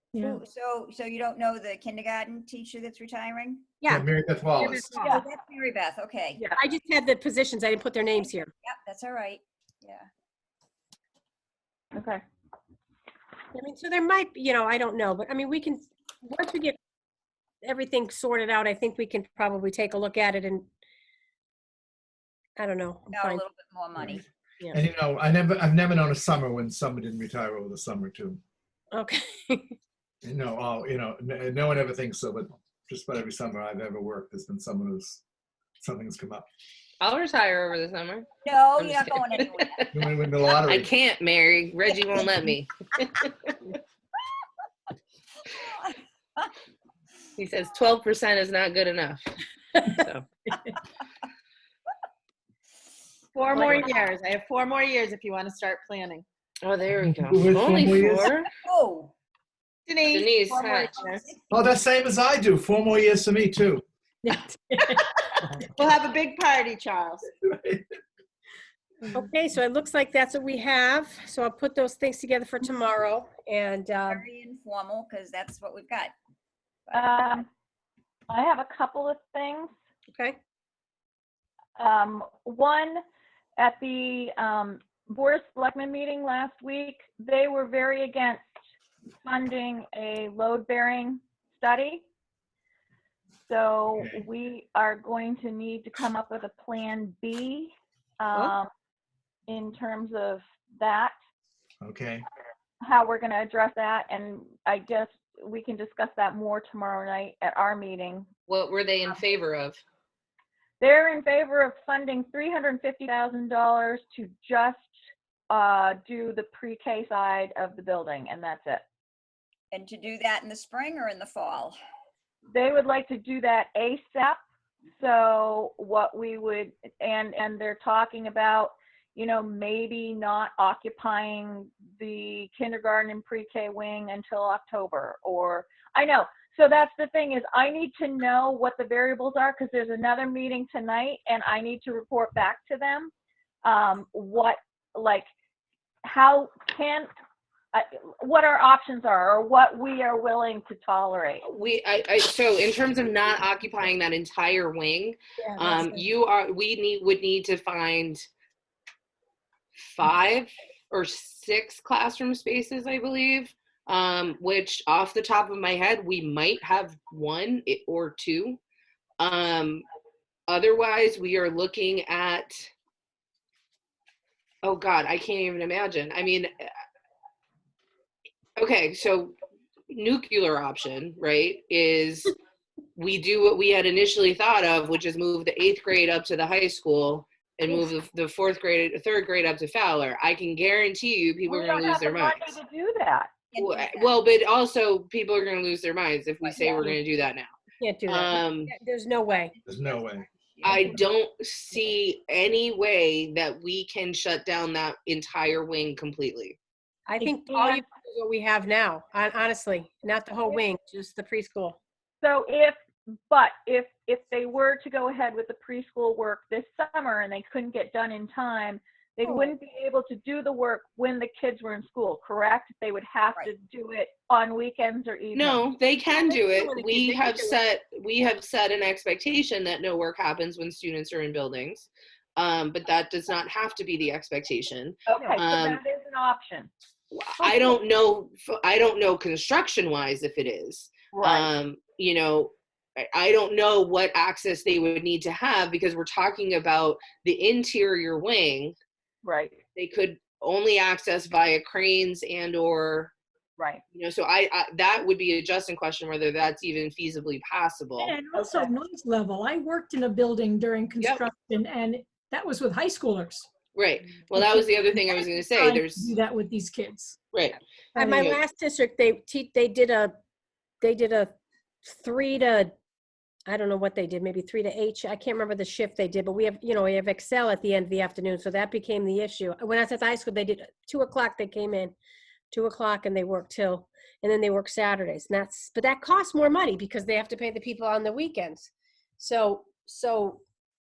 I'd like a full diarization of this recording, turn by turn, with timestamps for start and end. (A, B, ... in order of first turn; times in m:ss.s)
0:00.1-0:00.4 A
0:00.2-0:03.7 B
0:03.9-0:04.9 C
0:04.6-0:05.2 D
0:05.0-0:05.2 E
0:05.0-0:06.4 B
0:06.5-0:08.5 D
0:08.5-0:10.1 B
0:11.9-0:12.2 E
0:13.5-0:16.8 D
0:17.6-0:20.7 D
0:22.6-0:23.4 D
0:23.1-0:24.2 B
0:24.0-0:28.4 C
0:28.9-0:29.8 D
0:30.2-0:35.2 C
0:35.8-0:36.5 C
0:37.0-0:39.9 F
0:38.4-0:39.9 B
0:39.9-0:40.9 C
0:40.6-0:43.5 F
0:45.5-0:45.9 B
0:47.4-0:49.2 F
0:49.8-0:50.2 F
0:53.3-0:56.2 G
0:53.5-0:53.9 D
0:53.6-0:53.8 B
0:56.6-0:58.5 F
0:57.2-0:58.3 C
0:58.5-0:59.1 B
0:59.8-1:01.2 G
1:00.1-1:01.0 F
1:01.5-1:03.8 C
1:04.2-1:05.1 A
1:05.7-1:07.3 G
1:07.4-1:07.8 C
1:09.1-1:14.2 D
1:14.1-1:16.1 B
1:16.9-1:17.2 B
1:16.9-1:17.5 E
1:18.3-1:19.7 E
1:20.1-1:20.4 D
1:21.8-1:23.0 E
1:23.6-1:28.4 E
1:29.2-1:32.0 E
1:33.5-1:38.7 E
1:33.9-1:34.2 C
1:39.5-1:41.1 E
1:41.8-1:42.2 C
1:42.8-1:48.3 E
1:48.5-1:49.8 F
1:50.8-1:54.9 E
1:55.5-1:58.8 E
1:59.7-2:01.8 B
2:02.5-2:04.4 E
2:05.0-2:23.1 E
2:23.6-2:25.3 E
2:26.0-2:27.1 E
2:27.7-2:31.4 E
2:31.4-2:38.3 F
2:35.4-2:36.0 D
2:39.8-2:48.6 F
2:49.2-2:49.8 F
2:50.5-2:52.7 F
2:54.6-2:56.5 F
2:58.6-2:59.3 F
2:59.9-3:02.3 F
3:03.0-3:12.5 F
3:11.5-3:13.4 E
3:13.5-3:14.4 B
3:13.6-3:17.5 F
3:16.4-3:17.0 B
3:17.8-3:19.5 D
3:18.1-3:18.7 F
3:19.5-3:21.0 B
3:19.6-3:20.2 C
3:20.6-3:26.6 F
3:27.1-3:31.8 D
3:27.2-3:27.9 E
3:32.2-3:32.8 E
3:33.3-3:45.6 E
3:45.3-3:55.8 F
3:46.2-3:47.6 D
3:55.1-3:56.7 E
3:57.1-4:08.7 F
3:57.4-3:57.7 E
4:01.1-4:01.5 E
4:09.2-4:09.6 E
4:09.8-4:13.1 F
4:13.9-4:18.1 F
4:18.0-4:23.5 A
4:18.4-4:18.7 E
4:23.7-4:26.1 F
4:24.3-4:27.2 A
4:27.3-4:27.6 F
4:27.9-4:28.4 A
4:28.0-4:30.2 D
4:28.1-4:28.4 F
4:30.8-4:31.3 D
4:31.8-4:32.7 D
4:33.5-4:41.9 D
4:42.5-4:50.4 D